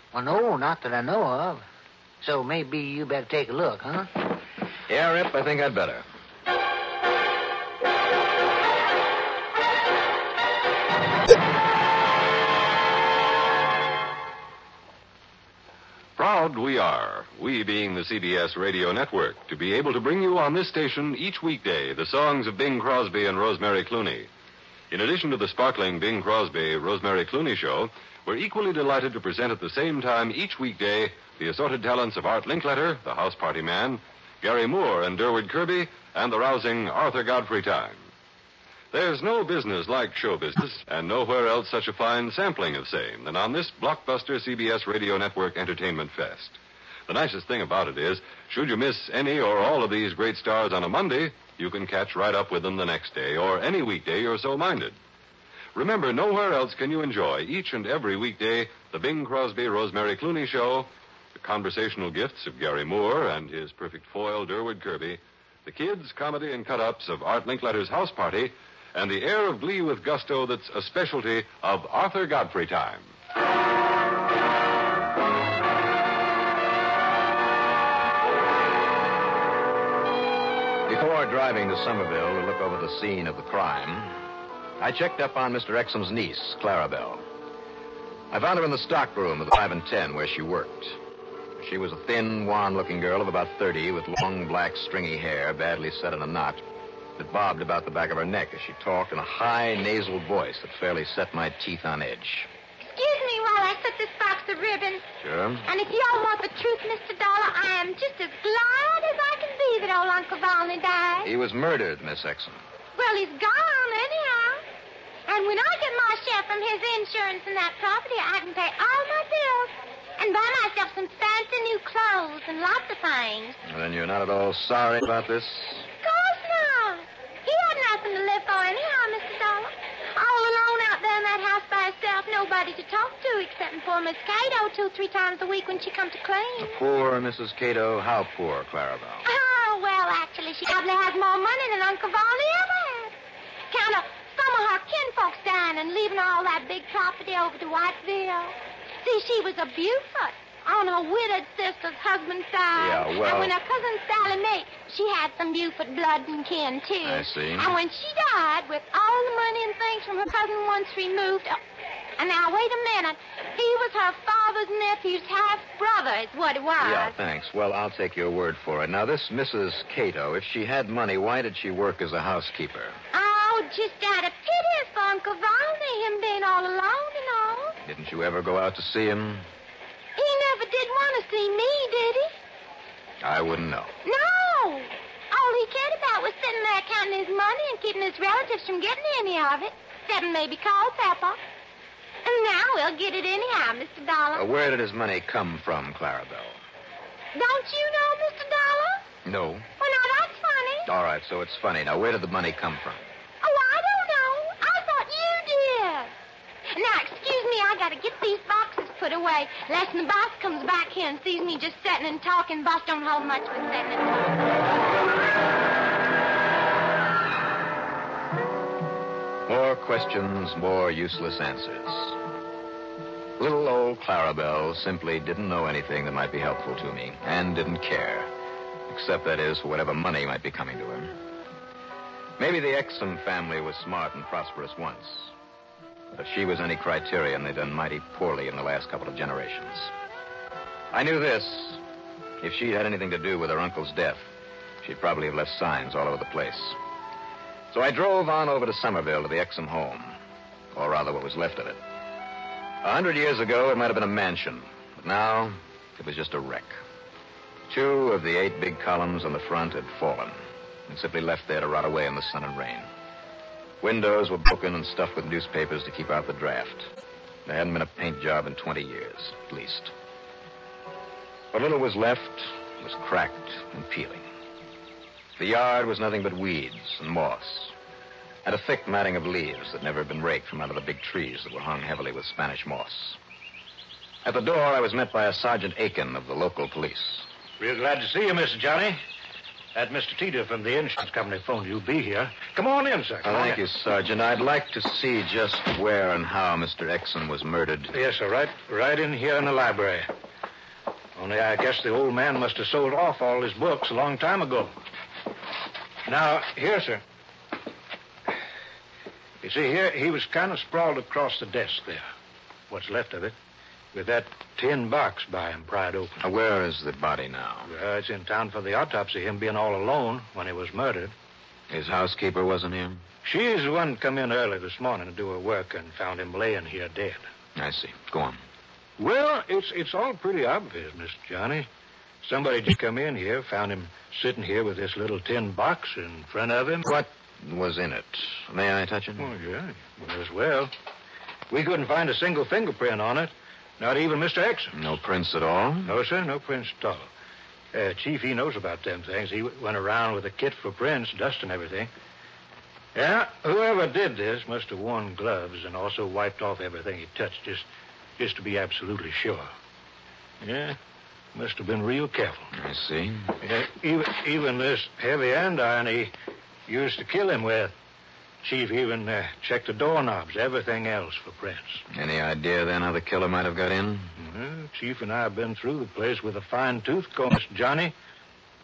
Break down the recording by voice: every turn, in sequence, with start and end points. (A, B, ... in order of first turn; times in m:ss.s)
0:00.1-0:01.6 A
0:02.2-0:04.2 A
0:04.9-0:06.0 B
0:16.2-0:24.3 C
0:24.9-0:38.0 C
0:38.9-0:55.0 C
0:55.7-1:13.1 C
1:20.9-1:24.1 B
1:24.8-1:27.2 B
1:28.3-1:31.0 B
1:31.6-1:36.6 B
1:37.2-1:42.5 B
1:42.8-1:45.0 D
1:45.2-1:45.7 B
1:45.7-1:51.3 D
1:51.2-1:52.6 B
1:53.0-1:54.6 D
1:55.3-2:03.6 D
2:03.6-2:05.9 B
2:06.0-2:16.7 D
2:16.6-2:19.2 B
2:19.2-2:23.1 D
2:23.7-2:41.6 D
2:32.7-2:33.5 B
2:37.0-2:37.7 B
2:42.2-2:47.1 D
2:46.8-2:53.0 B
2:53.1-2:57.7 D
2:57.8-2:59.5 B
3:00.2-3:02.3 D
3:03.2-3:03.9 B
3:04.0-3:11.4 D
3:12.2-3:14.4 D
3:14.3-3:16.6 B
3:17.3-3:19.0 D
3:19.2-3:19.7 B
3:19.8-3:20.9 D
3:20.8-3:23.0 B
3:23.4-3:26.1 D
3:26.7-3:34.5 D
3:39.5-3:42.2 B
3:43.4-3:48.3 B
3:48.9-3:51.1 B
3:52.4-3:55.3 B
3:56.1-3:59.9 B
4:00.9-4:01.8 B
4:02.4-4:04.2 B
4:04.8-4:06.8 B
4:07.7-4:10.2 B
4:10.7-4:11.8 B
4:12.8-4:16.8 B
4:17.7-4:22.9 B
4:23.8-4:26.9 B
4:27.4-4:29.9 B
4:31.5-4:34.2 B
4:35.4-4:37.7 B
4:38.4-4:43.2 B
4:44.2-4:47.2 B
4:47.6-4:49.0 E
4:49.7-4:53.6 E
4:53.2-4:57.9 B
4:57.9-5:00.1 E
5:01.2-5:04.7 E
5:06.0-5:07.0 E
5:09.4-5:12.0 E
5:12.7-5:13.4 E
5:13.9-5:16.2 E
5:16.2-5:17.7 B
5:17.6-5:21.1 E
5:21.7-5:23.0 B
5:23.2-5:27.2 E
5:27.6-5:28.4 B
5:29.0-5:31.7 E
5:32.2-5:36.9 E
5:36.8-5:39.3 B
5:39.2-5:40.7 E
5:41.5-5:44.8 E
5:44.7-5:45.9 B
5:45.8-5:47.1 E
5:47.7-5:51.9 E
5:52.9-5:57.6 E
5:58.2-5:59.5 E
6:00.4-6:00.8 E
6:01.3-6:02.5 E
6:02.5-6:03.3 B
6:03.4-6:06.1 E
6:06.7-6:07.8 E
6:08.4-6:11.8 E
6:11.9-6:14.1 B
6:14.2-6:17.9 E